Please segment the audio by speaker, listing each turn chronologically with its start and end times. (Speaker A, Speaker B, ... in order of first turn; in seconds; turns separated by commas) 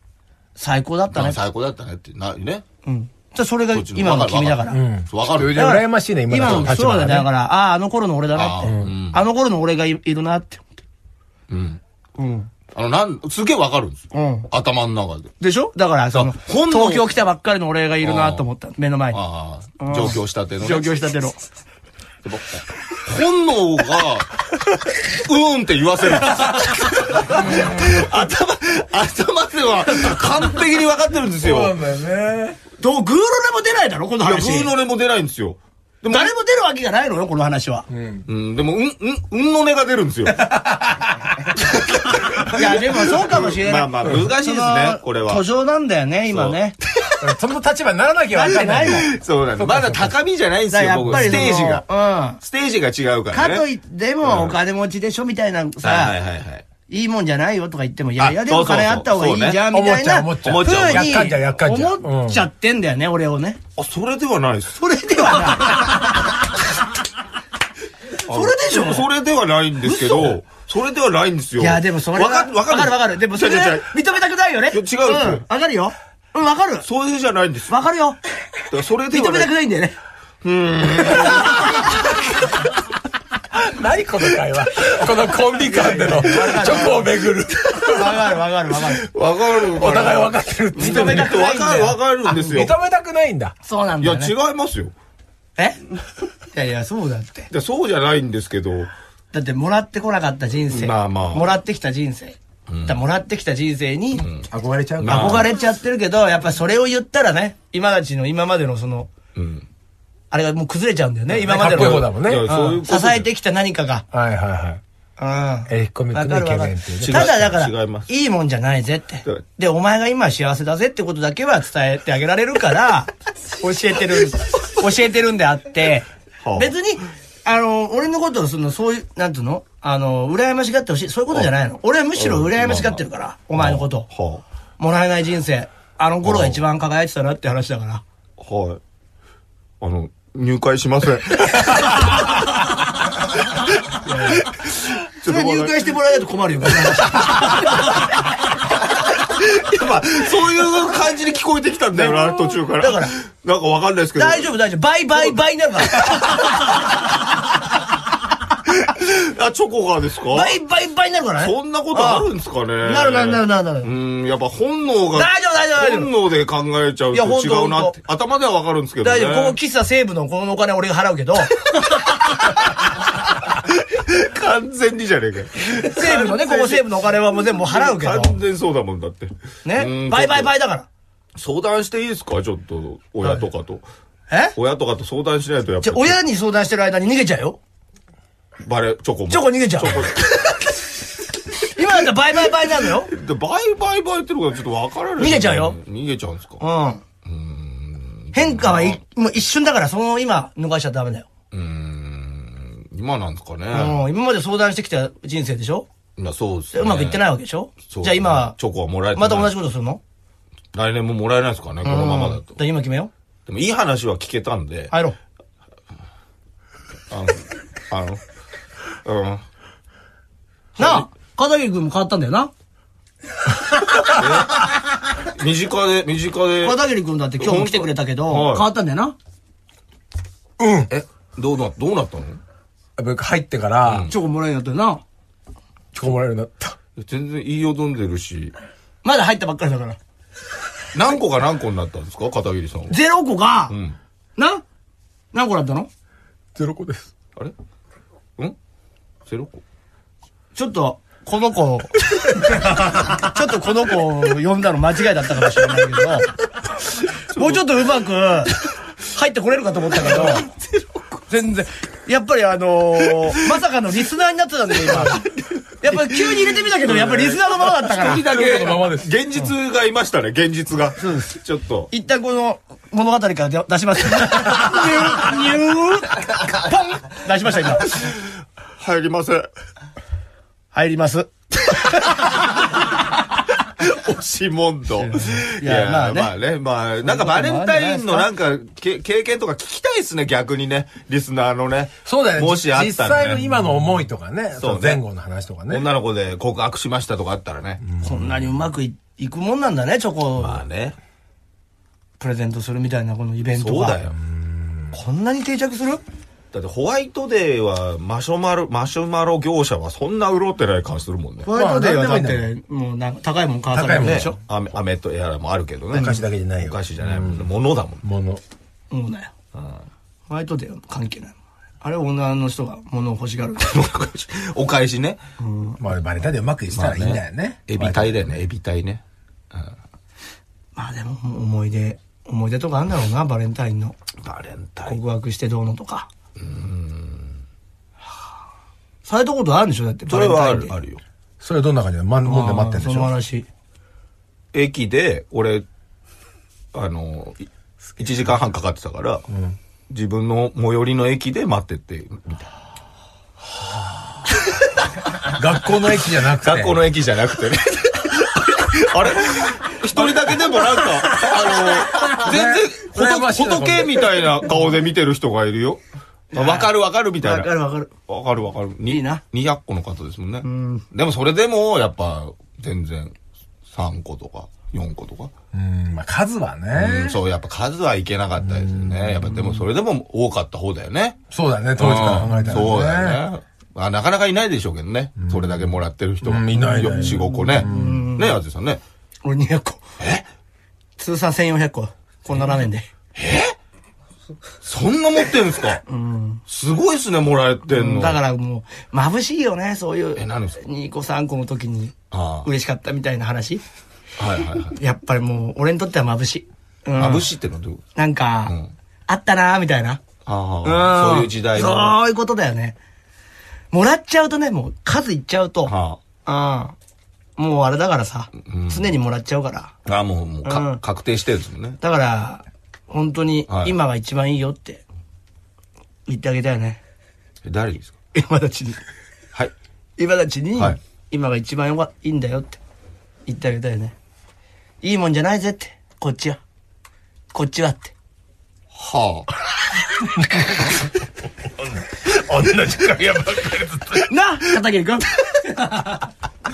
Speaker A: 0.6-1.4, Speaker B: 1.1-2.6, Speaker A: 2.8-4.8, Speaker B: 3.7-5.7, Speaker C: 4.7-7.3, Speaker A: 5.5-10.8, Speaker B: 6.4-6.8, Speaker B: 8.3-9.2, Speaker C: 8.6-8.9, Speaker B: 11.5-11.8, Speaker A: 12.2-12.5, Speaker B: 12.7-15.3, Speaker A: 14.1-14.5, Speaker A: 15.4-19.2, Speaker B: 16.1-17.1, Speaker B: 18.0-18.4, Speaker B: 19.1-20.9, Speaker A: 19.8-21.4, Speaker B: 22.2-31.8, Speaker C: 27.3-27.9, Speaker C: 31.4-32.6, Speaker A: 32.8-34.7, Speaker B: 34.2-36.3, Speaker A: 36.1-37.9, Speaker C: 37.9-38.3, Speaker B: 38.3-40.7, Speaker C: 40.5-40.9, Speaker B: 41.5-45.5, Speaker A: 42.5-46.8, Speaker B: 46.3-47.3, Speaker C: 47.2-50.1, Speaker A: 48.3-49.1, Speaker B: 48.9-51.9, Speaker A: 50.7-52.4, Speaker C: 51.1-51.6, Speaker B: 52.4-53.6, Speaker A: 53.3-56.2, Speaker B: 54.2-54.6, Speaker B: 55.8-56.6, Speaker A: 56.9-63.6, Speaker B: 58.2-59.6, Speaker C: 59.7-62.5, Speaker B: 60.4-61.3, Speaker B: 63.8-65.9, Speaker A: 64.8-66.3, Speaker A: 68.2-69.1, Speaker B: 68.2-73.9, Speaker A: 69.9-70.3, Speaker A: 71.6-76.9, Speaker B: 74.7-75.4, Speaker B: 76.8-77.8, Speaker A: 77.7-78.2, Speaker B: 78.7-79.5, Speaker A: 79.1-80.0, Speaker B: 80.4-82.2, Speaker A: 81.3-81.8, Speaker C: 83.5-88.4, Speaker A: 85.7-87.2, Speaker B: 86.4-86.8, Speaker A: 87.8-89.1, Speaker B: 88.9-92.8, Speaker C: 89.7-91.5, Speaker A: 90.8-92.6, Speaker C: 92.4-93.5, Speaker A: 93.6-94.3, Speaker B: 94.0-94.9, Speaker A: 96.5-97.5, Speaker B: 97.5-98.9, Speaker A: 99.3-104.2, Speaker B: 100.7-101.5, Speaker B: 102.7-103.0, Speaker B: 104.2-104.5, Speaker C: 104.5-105.5, Speaker B: 105.0-105.5, Speaker A: 105.1-109.1, Speaker B: 109.3-109.7, Speaker A: 110.3-114.0, Speaker B: 111.3-113.3, Speaker C: 111.5-112.5, Speaker C: 114.1-114.8, Speaker A: 115.2-134.1, Speaker C: 115.7-117.4, Speaker B: 117.0-118.1, Speaker B: 126.4-126.7, Speaker B: 132.2-133.1, Speaker B: 133.6-134.4, Speaker A: 134.8-138.0, Speaker B: 136.2-136.6, Speaker B: 138.4-138.8, Speaker B: 139.8-142.7, Speaker B: 143.4-145.9, Speaker A: 144.1-144.4, Speaker A: 145.2-148.1, Speaker B: 146.6-147.6, Speaker B: 149.2-154.5, Speaker A: 151.9-153.1, Speaker A: 154.2-157.0, Speaker B: 155.2-156.9, Speaker B: 158.7-160.5, Speaker A: 160.3-162.3, Speaker B: 161.4-169.6, Speaker A: 162.8-163.9, Speaker A: 165.1-166.1, Speaker A: 167.1-168.0, Speaker A: 169.0-172.8, Speaker B: 171.9-172.6, Speaker B: 173.4-180.5, Speaker A: 175.8-178.4, Speaker A: 179.7-180.9, Speaker B: 181.4-183.8, Speaker B: 184.5-186.2, Speaker A: 185.8-187.6, Speaker B: 188.6-190.6, Speaker A: 189.3-190.7, Speaker A: 191.5-193.1, Speaker B: 192.8-196.6, Speaker A: 195.2-195.8, Speaker A: 196.6-197.0, Speaker B: 197.2-199.0, Speaker A: 198.3-201.3, Speaker B: 201.5-204.0, Speaker A: 203.7-205.9, Speaker B: 206.2-207.3, Speaker A: 206.7-208.6, Speaker B: 207.9-209.5, Speaker A: 209.1-210.0, Speaker B: 210.7-212.5, Speaker A: 211.8-213.1, Speaker B: 213.5-214.9, Speaker B: 217.1-218.2, Speaker B: 219.1-219.4, Speaker B: 220.8-221.1, Speaker A: 220.8-222.5, Speaker B: 224.1-224.7, Speaker B: 225.2-226.8, Speaker A: 226.6-229.2, Speaker B: 227.4-228.7, Speaker C: 230.6-230.9, Speaker B: 230.9-232.4, Speaker C: 233.0-234.1, Speaker B: 233.8-234.1, Speaker A: 234.1-235.0, Speaker C: 235.9-236.8, Speaker B: 237.0-238.5, Speaker A: 239.0-240.0, Speaker B: 240.9-243.0, Speaker A: 242.9-243.8, Speaker B: 243.7-244.0, Speaker A: 244.4-244.6, Speaker A: 245.3-245.9, Speaker C: 246.6-247.1, Speaker B: 249.3-249.6, Speaker A: 250.6-256.3, Speaker B: 257.1-257.8, Speaker A: 257.1-258.6, Speaker A: 259.1-260.5, Speaker B: 259.9-261.2, Speaker A: 261.3-265.2, Speaker B: 263.1-263.6, Speaker B: 264.8-271.9, Speaker A: 265.8-268.3, Speaker C: 268.1-269.2, Speaker A: 271.0-271.4, Speaker A: 271.9-277.9, Speaker B: 277.7-278.2, Speaker B: 278.8-279.5, Speaker A: 280.7-282.2, Speaker B: 283.6-293.9, Speaker A: 285.0-286.3, Speaker A: 287.0-288.3, Speaker C: 292.1-295.9, Speaker B: 294.6-295.0, Speaker B: 295.7-297.8, Speaker C: 297.8-298.5, Speaker A: 298.0-300.6, Speaker B: 300.4-301.0, Speaker A: 302.2-304.0, Speaker B: 303.5-304.1, Speaker C: 304.1-304.9, Speaker A: 304.9-306.0, Speaker B: 306.5-311.5, Speaker A: 311.4-314.4, Speaker C: 311.5-312.5, Speaker C: 313.7-314.3, Speaker B: 314.0-318.0, Speaker A: 315.9-316.2, Speaker C: 315.9-317.5, Speaker C: 318.0-318.4, Speaker A: 318.9-319.3, Speaker B: 319.6-319.9, Speaker A: 320.3-323.8, Speaker B: 323.6-325.2, Speaker A: 325.4-325.8, Speaker C: 325.8-328.4, Speaker B: 326.7-329.0, Speaker A: 330.8-334.0, Speaker B: 334.2-335.0, Speaker A: 334.9-336.1, Speaker B: 336.4-337.3, Speaker A: 339.1-340.7, Speaker B: 340.1-341.0, Speaker C: 341.4-343.1, Speaker A: 342.2-343.5, Speaker B: 344.5-345.6, Speaker B: 346.7-349.2, Speaker B: 349.9-352.5, Speaker C: 355.2-356.8, Speaker B: 356.4-365.8, Speaker C: 360.5-364.3, Speaker B: 366.3-367.5, Speaker A: 366.3-367.9, Speaker B: 368.1-373.1, Speaker A: 368.9-369.2, Speaker A: 370.4-370.8, Speaker B: 373.7-375.3, Speaker C: 375.5-377.2, Speaker B: 376.8-381.2, Speaker C: 378.4-379.6, Speaker C: 381.3-383.2, Speaker B: 381.8-388.8, Speaker A: 382.2-382.7, Speaker C: 385.2-385.6, Speaker C: 386.2-388.0, Speaker A: 387.6-388.4, Speaker A: 389.2-389.8, Speaker B: 390.0-390.3, Speaker A: 391.0-392.9, Speaker B: 393.1-393.6, Speaker B: 394.6-395.8, Speaker A: 395.9-396.4, Speaker B: 396.5-398.2, Speaker A: 397.7-403.6, Speaker B: 400.2-400.6, Speaker B: 402.1-402.5, Speaker B: 404.2-404.8, Speaker A: 404.8-407.3, Speaker B: 407.0-407.8, Speaker A: 407.9-408.6, Speaker B: 408.5-408.7, Speaker A: 409.1-410.0, Speaker B: 410.3-412.0, Speaker A: 410.6-412.8, Speaker A: 413.7-415.7, Speaker B: 415.7-416.0, Speaker A: 416.2-416.8, Speaker A: 417.4-419.7, Speaker B: 418.5-418.9, Speaker B: 419.9-421.8, Speaker A: 420.4-420.8, Speaker A: 421.8-424.8, Speaker B: 423.5-423.7, Speaker A: 426.1-426.8, Speaker B: 427.4-427.9, Speaker A: 428.1-428.8, Speaker A: 430.0-432.6, Speaker A: 433.3-433.9, Speaker A: 434.8-436.4, Speaker A: 437.3-437.9, Speaker B: 438.7-439.3, Speaker C: 442.0-444.1, Speaker A: 444.1-446.0